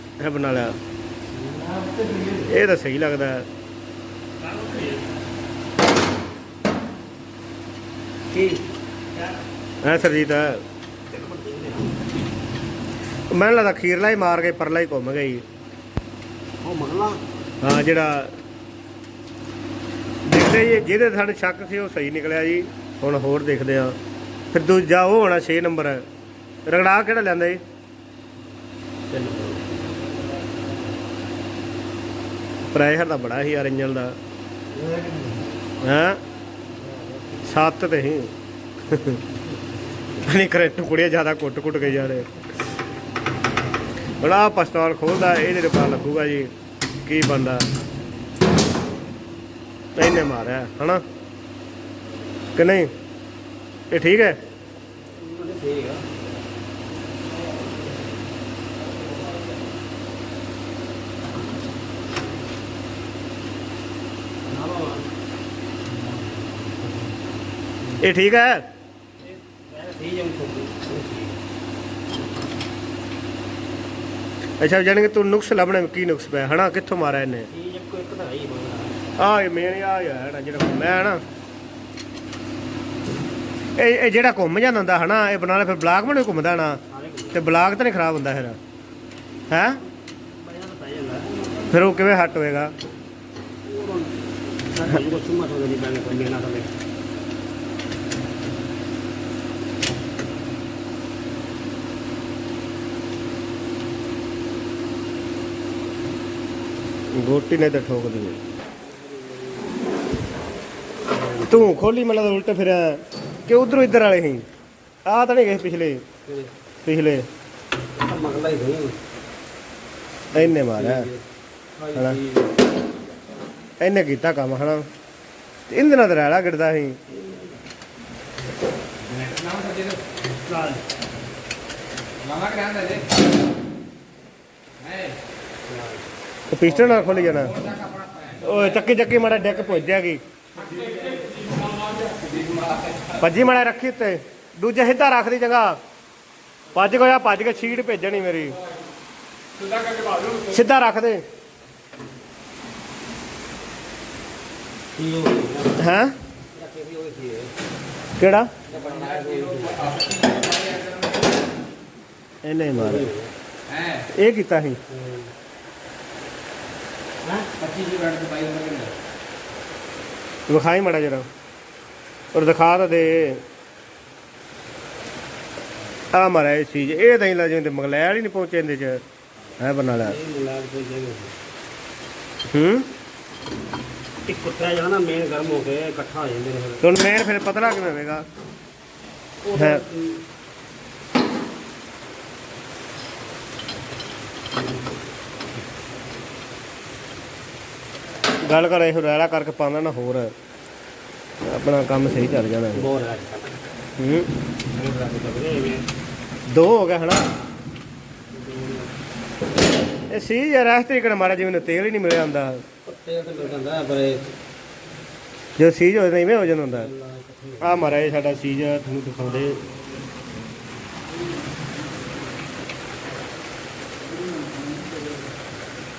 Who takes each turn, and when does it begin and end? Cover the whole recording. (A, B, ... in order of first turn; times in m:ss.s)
0:00.2-0:00.8 A
0:01.4-0:02.5 B
0:02.5-0:03.4 A
0:08.3-0:08.6 B
0:09.8-0:10.6 A
0:11.1-0:12.0 B
0:13.3-0:15.4 A
0:16.6-0:17.2 B
0:17.6-0:18.3 A
0:20.2-0:24.0 A
0:24.5-0:26.0 A
0:26.7-0:27.6 A
0:29.1-0:29.6 B
0:32.7-0:34.1 A
0:34.7-0:35.5 B
0:35.8-0:36.2 A
0:37.5-0:38.3 A
0:38.9-0:39.2 A
0:40.2-0:42.3 A
0:44.2-0:46.5 A
0:47.0-0:47.7 A
0:50.0-0:51.0 A
0:52.5-0:52.9 A
0:53.9-0:54.4 A
0:55.1-0:56.1 B
1:04.4-1:05.1 B
1:08.0-1:08.6 A
1:09.3-1:11.4 B
1:14.6-1:17.5 A
1:17.5-1:19.0 B
1:19.2-1:21.2 A
1:23.8-1:26.8 A
1:26.9-1:27.4 B
1:27.3-1:28.6 A
1:29.5-1:29.8 A
1:30.2-1:31.7 B
1:31.7-1:32.7 A
1:33.6-1:36.7 B
1:47.1-1:48.4 A
1:48.8-1:49.7 B
1:51.1-1:51.7 B
1:51.5-1:54.4 A
1:55.0-1:56.0 A
1:56.2-1:56.5 B
1:56.8-1:57.3 A
1:58.0-1:59.0 B
2:00.3-2:01.1 A
2:00.3-2:01.2 B
2:01.8-2:02.5 B
2:03.8-2:04.8 A
2:05.7-2:07.0 A
2:07.1-2:07.5 B
2:09.1-2:10.0 C
2:10.5-2:10.8 B
2:12.2-2:13.1 C
2:14.8-2:15.1 C
2:15.7-2:16.0 B
2:16.5-2:17.6 A
2:16.9-2:18.6 C
2:18.4-2:20.2 A
2:20.6-2:23.2 C
2:23.2-2:25.8 A
2:26.7-2:28.6 A
2:29.6-2:30.5 C
2:30.4-2:31.2 A
2:34.9-2:35.8 B
2:35.8-2:36.1 A
2:36.5-2:37.5 B
2:38.2-2:38.5 A
2:38.7-2:40.0 B
2:38.8-2:41.3 C
2:42.4-2:43.1 A
2:42.8-2:43.3 B
2:43.7-2:44.1 C
2:44.1-2:44.8 A
2:44.9-2:45.3 B
2:47.2-2:47.6 B
2:47.6-2:48.9 C
2:50.5-2:51.3 A
2:52.3-2:53.4 A
2:56.1-2:59.0 A
2:59.6-3:00.2 A
3:00.0-3:01.3 B
3:02.4-3:02.9 A
3:04.2-3:06.8 B
3:06.8-3:08.2 A
3:09.4-3:10.2 B
3:09.6-3:09.8 A
3:18.4-3:20.3 A
3:21.4-3:22.8 A
3:22.7-3:23.6 B
3:24.0-3:24.3 A
3:24.7-3:25.8 B
3:26.5-3:27.3 A
3:28.3-3:28.9 B
3:30.1-3:32.6 A
3:32.8-3:34.3 B
3:35.6-3:36.9 A
3:36.6-3:37.8 B
3:37.6-3:39.6 A